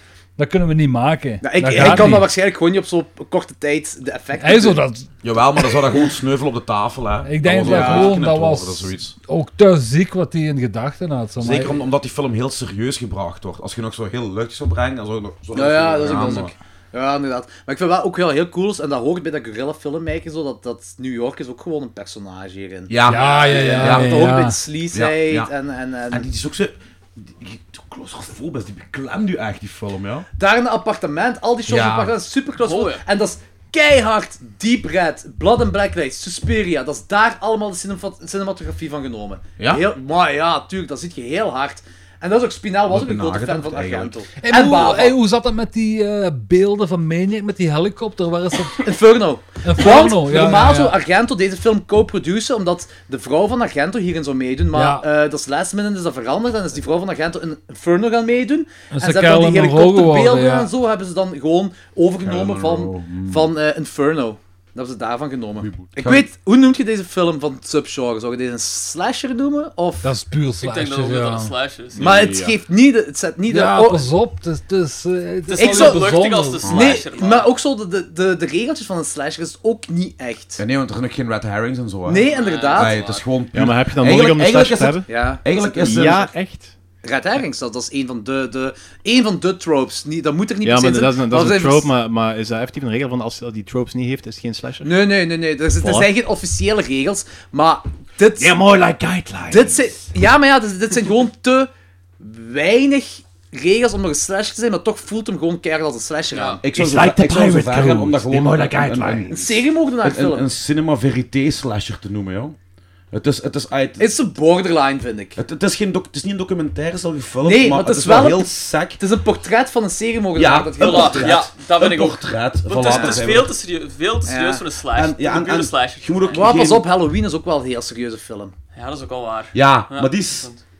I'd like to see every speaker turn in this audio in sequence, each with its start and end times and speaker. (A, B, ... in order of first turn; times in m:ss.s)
0:00.4-0:02.3 A
0:01.4-0:04.8 B
0:01.8-0:02.1 C
0:04.4-0:05.1 A
0:05.2-0:09.2 C
0:07.2-0:11.8 A
0:07.6-0:08.2 B
0:11.4-0:16.5 C
0:15.5-0:26.3 B
0:22.9-0:24.3 C
0:23.0-0:24.6 A
0:23.1-0:23.9 D
0:24.9-0:25.5 C
0:26.1-0:30.3 C
0:30.4-0:45.2 B
0:31.7-0:32.1 C
0:32.6-0:33.0 D
0:39.6-0:39.8 C
0:42.9-0:44.2 C
0:44.4-0:48.9 A
0:48.8-1:10.1 B
0:49.6-0:51.0 A
0:54.7-0:55.0 A
0:58.9-1:00.7 A
1:02.2-1:03.5 C
1:05.6-1:06.3 C
1:10.0-1:11.5 A
1:10.6-1:12.0 D
1:12.0-1:14.0 B
1:12.0-1:12.4 C
1:12.0-1:12.6 E
1:13.5-1:16.8 A
1:15.5-1:17.5 D
1:15.6-1:16.0 B
1:16.6-1:17.0 C
1:16.7-1:20.6 B
1:20.6-1:26.3 C
1:22.0-1:23.0 B
1:22.2-1:23.2 D
1:23.5-1:26.7 E
1:25.1-1:26.3 B
1:27.0-1:31.9 B
1:30.6-1:34.9 E
1:34.8-1:38.6 B
1:35.8-1:36.1 E
1:38.4-1:40.0 E
1:39.5-1:46.6 B
1:46.3-1:46.6 D
1:46.6-1:49.5 C
1:46.7-1:49.5 E
1:49.3-1:50.5 B
1:50.0-1:52.6 C
1:53.1-1:54.1 C
1:54.0-1:55.4 B
1:55.4-1:59.0 C
1:57.4-2:01.3 B
2:00.4-2:03.5 C
2:00.8-2:06.4 D
2:02.8-2:03.2 B
2:04.2-2:04.6 B
2:04.9-2:06.8 C
2:06.3-2:08.5 B
2:08.7-2:10.6 D
2:09.5-2:10.5 C